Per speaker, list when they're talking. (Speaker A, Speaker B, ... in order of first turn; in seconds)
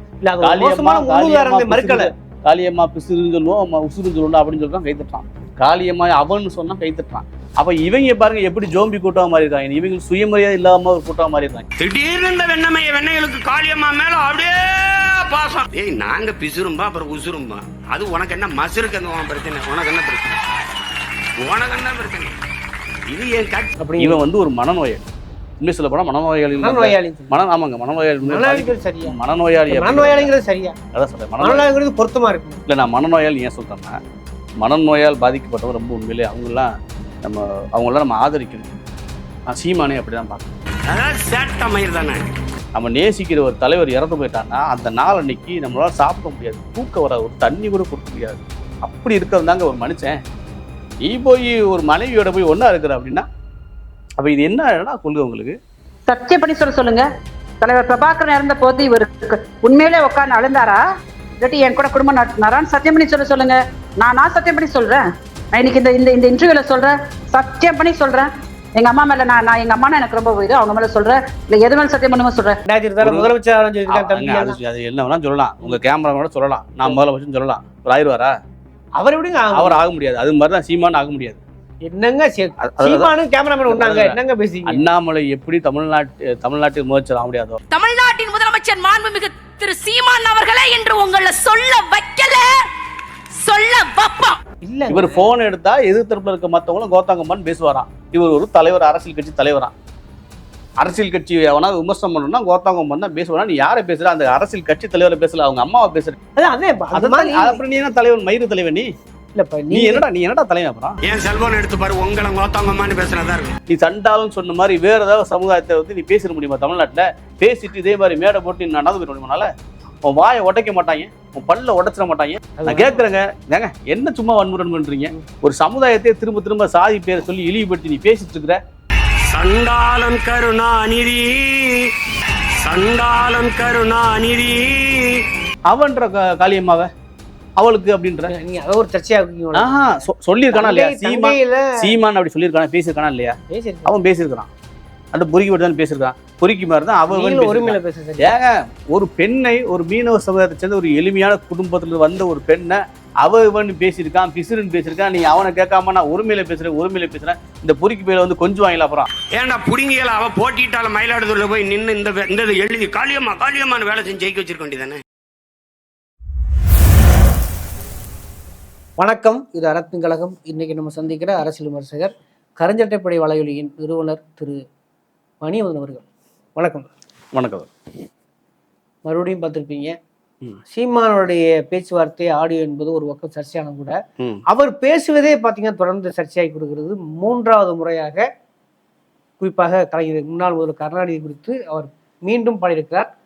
Speaker A: 0.2-2.1, 23.8-24.2, 26.6-27.3, 28.2-29.1, 29.7-30.8, 31.4-32.6, 72.7-74.6, 79.0-79.8, 81.9-84.8, 94.6-95.3, 106.4-107.6, 109.3-110.0, 122.6-123.0, 138.3-141.9, 143.5-143.9, 147.1-148.3, 169.0-174.6, 175.4-176.0, 176.6-176.9, 179.1-179.9, 180.7-184.0, 184.5-188.2, 189.4-193.1
Speaker B: 0.4-11.7, 24.0-25.0, 25.6-30.3, 30.9-31.7, 32.7-34.0, 34.6-36.7, 37.2-38.7, 39.5-40.5, 42.7-50.2, 51.0-53.3, 54.2-55.6, 73.0-73.3, 73.9-78.3, 79.5-81.4, 82.6-83.1, 83.7-87.6, 94.9-99.7, 100.8-106.2, 106.9-108.9, 109.7-111.0, 113.7-119.5, 120.0-128.6, 135.7-136.9, 137.6-138.3, 139.5-144.5, 145.1-159.1, 177.3-177.7
Speaker C: 11.8-20.4, 21.4-22.4, 23.1-23.7, 40.9-42.3, 111.0-113.6, 129.3-131.9, 132.6-135.2, 159.3-165.0
Speaker D: 56.1-57.1, 57.6-60.8, 61.4-72.6
Speaker E: 87.7-92.7, 93.3-94.4